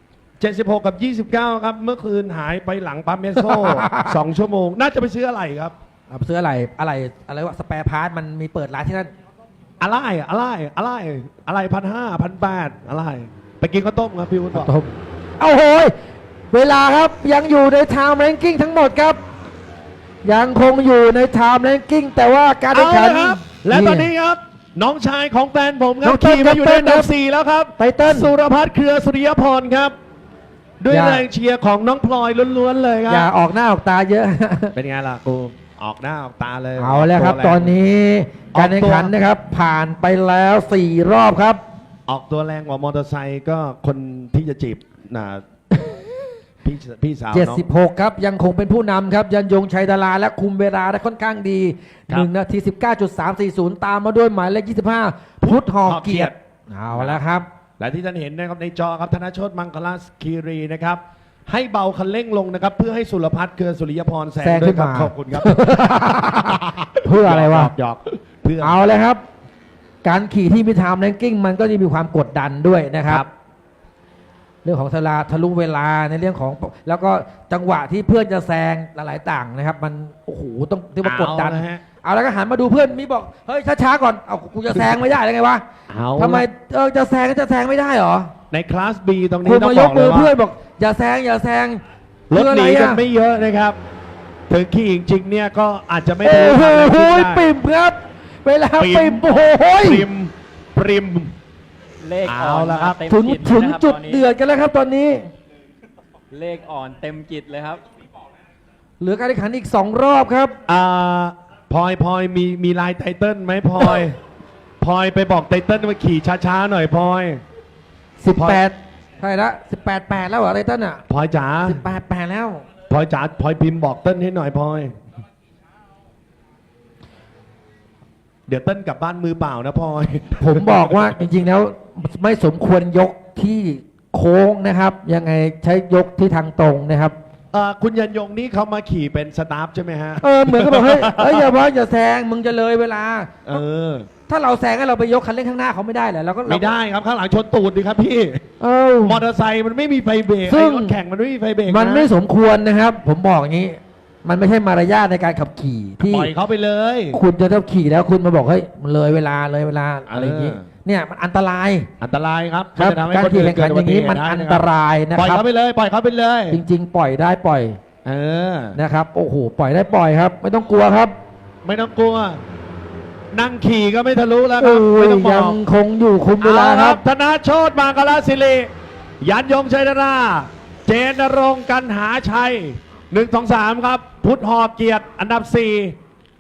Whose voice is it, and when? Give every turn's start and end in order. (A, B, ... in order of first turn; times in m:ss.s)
0:00.4-0:05.8 A
0:03.4-0:04.1 B
0:06.1-0:09.1 B
0:09.8-0:14.7 A
0:14.5-0:15.9 B
0:16.5-0:19.2 B
0:20.2-0:24.1 B
0:22.7-0:29.9 A
0:26.0-0:27.1 B
0:27.8-0:28.3 B
0:30.8-0:33.3 A
0:30.9-0:31.2 B
0:33.1-0:34.7 B
0:34.8-0:37.7 A
0:36.8-0:41.6 B
0:38.5-0:39.2 A
0:42.1-0:45.4 A
0:45.7-0:46.1 B
0:46.6-0:47.6 A
0:47.3-0:57.4 B
0:55.4-0:56.3 A
0:56.9-0:57.2 A
0:57.8-1:08.8 A
1:04.4-1:07.7 B
1:08.6-1:09.2 B
1:10.0-1:13.2 B
1:14.6-1:25.6 B
1:21.0-1:21.8 A
1:25.9-1:26.5 A
1:26.2-1:28.3 B
1:28.5-1:30.3 A
1:29.4-1:33.0 B
1:32.3-1:33.8 A
1:34.5-1:37.5 A
1:36.2-1:40.1 B
1:38.8-1:41.3 A
1:42.0-1:44.3 C
1:42.2-1:43.0 A
1:43.1-1:45.3 B
1:46.3-1:47.8 C
1:49.0-1:50.6 B
1:50.7-1:54.2 A
1:54.8-1:57.4 A
1:58.2-2:01.0 B
1:58.3-1:58.6 A
2:01.1-2:01.8 A
2:01.6-2:02.6 B
2:02.9-2:04.9 A
2:08.5-2:11.1 A
2:10.4-2:17.2 B
2:17.5-2:21.6 A
2:20.2-2:23.6 B
2:23.4-2:24.1 A
2:24.3-2:26.7 B
2:26.5-2:28.5 A
2:28.6-2:29.2 B
2:29.0-2:32.1 A
2:30.5-2:31.0 B
2:31.7-2:36.3 B
2:36.0-2:37.2 A
2:37.1-2:41.9 B
2:40.1-2:40.7 A
2:42.0-2:46.6 A
2:42.8-2:45.4 B
2:46.5-2:47.8 B
2:48.0-2:48.8 A
2:48.8-2:51.1 B
2:51.6-2:52.4 A
2:53.3-2:55.6 A
2:54.6-2:57.0 B
2:56.4-2:58.7 A
2:59.2-3:05.9 A